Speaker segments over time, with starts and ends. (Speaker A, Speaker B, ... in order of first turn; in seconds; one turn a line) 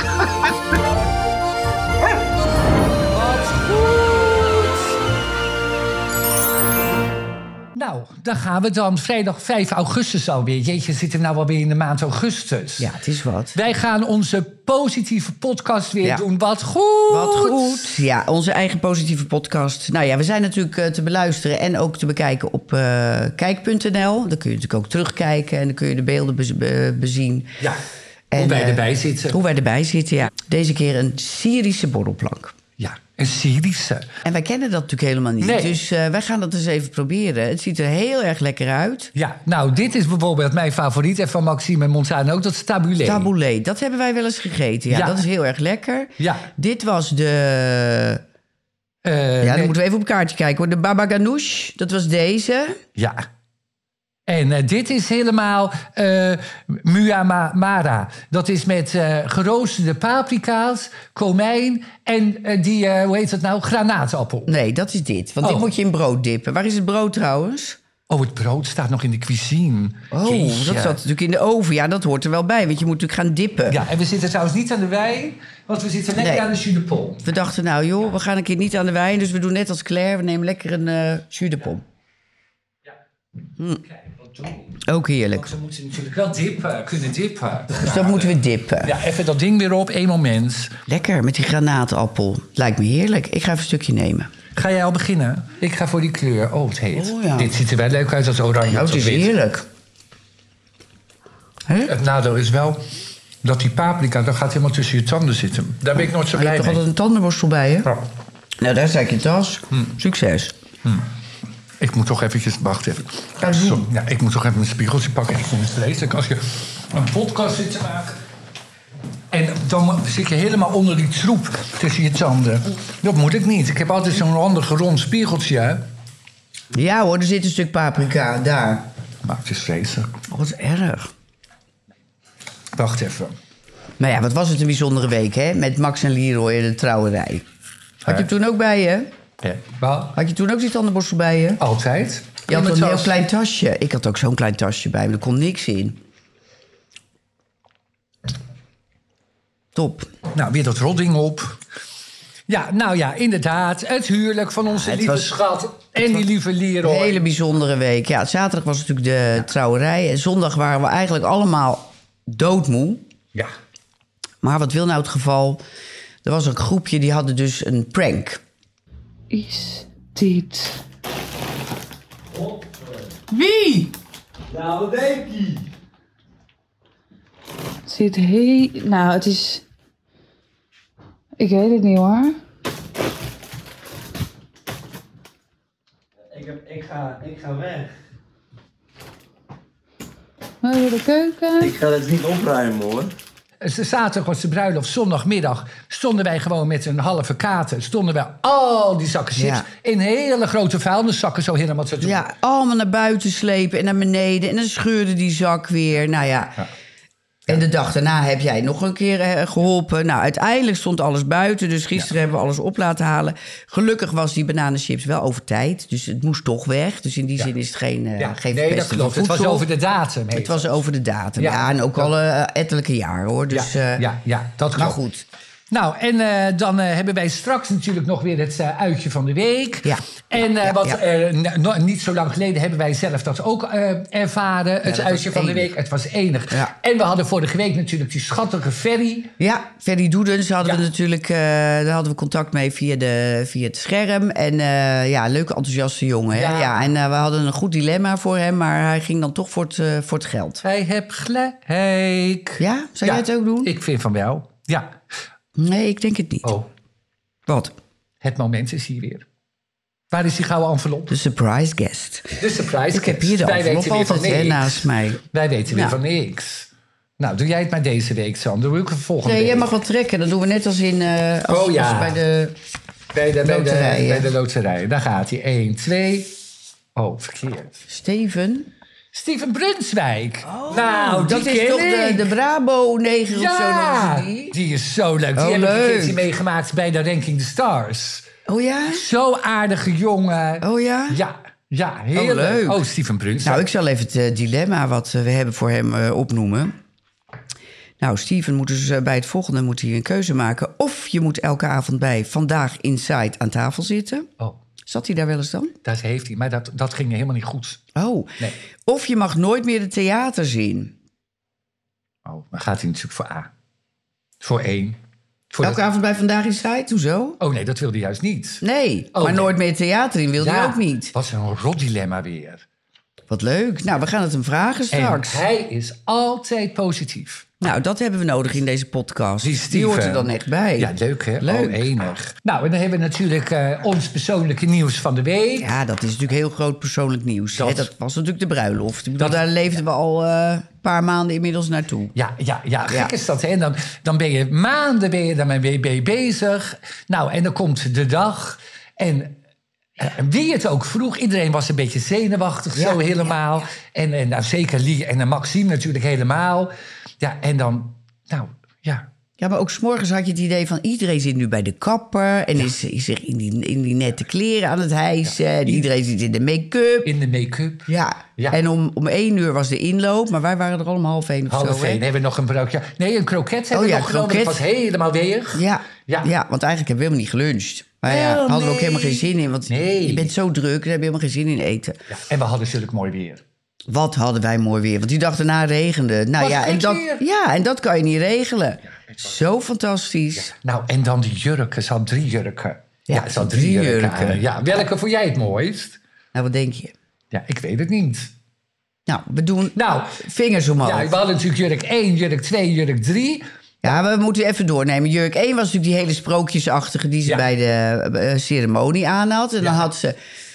Speaker A: 3.1-4.8
Speaker A: 7.7-12.9
Speaker B: 12.8-13.6
Speaker A: 13.5-18.0
Speaker B: 17.1-27.6
Speaker B: 28.3-32.5
Speaker A: 28.3-29.4
Speaker A: 32.8-34.1
Speaker B: 34.2-39.1
Speaker A: 35.4-35.8
Speaker A: 39.1-43.3
Speaker B: 43.0-48.2
Speaker A: 44.9-45.2
Speaker A: 46.2-46.5
Speaker A: 49.0-49.7
Speaker B: 49.4-52.8
Speaker A: 53.0-53.2
Speaker A: 54.3-64.5
Speaker B: 64.5-67.8
Speaker A: 65.4-65.7
Speaker A: 68.1-71.0
Speaker B: 70.1-73.8
Speaker A: 73.7-77.2
Speaker B: 76.2-76.5
Speaker B: 77.2-81.8
Speaker A: 83.8-84.8
Speaker B: 84.8-85.5
Speaker A: 85.3-90.8
Speaker B: 87.7-88.9
Speaker B: 90.9-94.3
Speaker A: 94.5-99.3
Speaker B: 96.9-97.5
Speaker B: 98.7-99.7
Speaker B: 101.7-101.9
Speaker A: 101.9-102.8
Speaker A: 103.4-106.8
Speaker B: 106.2-107.9
Speaker B: 108.6-110.5
Speaker A: 111.8-118.2
Speaker B: 113.4-113.8
Speaker A: 119.3-125.9
Speaker B: 126.7-128.9
Speaker A: 129.2-130.1
Speaker B: 130.3-131.1
Speaker A: 132.7-133.3
Speaker B: 134.0-137.4
Speaker B: 138.0-139.1
Speaker A: 139.4-140.2
Speaker B: 140.1-141.6
Speaker A: 141.6-143.2
Speaker B: 142.5-146.0
Speaker B: 149.7-150.1
Speaker A: 150.3-151.6
Speaker A: 152.5-157.2
Speaker B: 154.8-155.3
Speaker B: 156.8-163.0
Speaker B: 164.4-165.6
Speaker B: 166.2-168.4
Speaker C: 169.3-170.8
Speaker C: 173.3-173.9
Speaker D: 174.5-175.6
Speaker C: 177.8-179.6
Speaker C: 181.4-182.4
Speaker D: 186.3-187.9
Speaker C: 190.6-191.8
Speaker D: 191.6-193.1
Speaker A: 193.6-202.2
Speaker B: 199.3-199.7
Speaker B: 202.0-206.7
Speaker B: 207.5-219.7
Speaker A: 218.2-220.8
Speaker B: 220.3-224.1
Speaker A: 221.4-222.1
Speaker A: 223.5-225.0
Speaker B: 224.8-225.2
Speaker A: 225.7-239.3
Speaker B: 229.8-231.0
Speaker B: 234.8-235.7
Speaker B: 239.4-250.6
Speaker A: 246.3-246.7
Speaker A: 250.6-255.0
Speaker B: 252.6-253.7
Speaker B: 255.6-256.5
Speaker A: 256.4-256.7
Speaker B: 257.5-257.7
Speaker A: 258.2-259.2
Speaker A: 260.1-261.2
Speaker B: 261.1-262.4
Speaker A: 262.4-269.7
Speaker B: 262.9-266.0
Speaker B: 269.2-272.6
Speaker A: 271.5-272.2
Speaker A: 273.1-276.3
Speaker B: 273.4-274.3
Speaker A: 276.9-277.8
Speaker B: 277.9-278.7
Speaker A: 279.1-282.3
Speaker B: 280.4-284.6
Speaker A: 283.3-288.2
Speaker B: 285.4-286.2
Speaker B: 288.4-289.0
Speaker A: 288.9-293.6
Speaker B: 290.6-291.2
Speaker B: 292.1-292.8
Speaker B: 293.4-296.7
Speaker B: 298.0-304.3
Speaker B: 304.9-305.7
Speaker A: 305.8-307.8
Speaker B: 307.9-310.9
Speaker A: 312.2-313.5
Speaker A: 314.4-315.0
Speaker A: 315.5-315.8
Speaker B: 315.6-317.4
Speaker A: 317.4-318.6
Speaker B: 318.6-321.1
Speaker A: 319.1-319.5
Speaker A: 320.4-322.6
Speaker B: 323.3-325.4
Speaker A: 324.9-327.5
Speaker B: 327.6-332.1
Speaker A: 329.4-335.7
Speaker B: 335.6-342.1
Speaker A: 337.6-337.9
Speaker A: 342.1-349.4
Speaker B: 342.9-343.1
Speaker A: 350.0-359.1
Speaker B: 352.7-353.7
Speaker B: 359.4-367.1
Speaker A: 367.0-368.6
Speaker B: 367.9-372.0
Speaker A: 371.5-376.3
Speaker B: 373.7-374.6
Speaker B: 375.5-382.0
Speaker A: 378.0-380.3
Speaker A: 382.1-383.4
Speaker B: 383.9-390.5
Speaker A: 386.4-387.2
Speaker A: 390.4-396.0
Speaker B: 393.1-394.5
Speaker B: 396.3-396.9
Speaker A: 397.3-398.3
Speaker B: 399.1-401.1
Speaker A: 399.7-400.2
Speaker A: 400.8-403.4
Speaker B: 403.8-410.1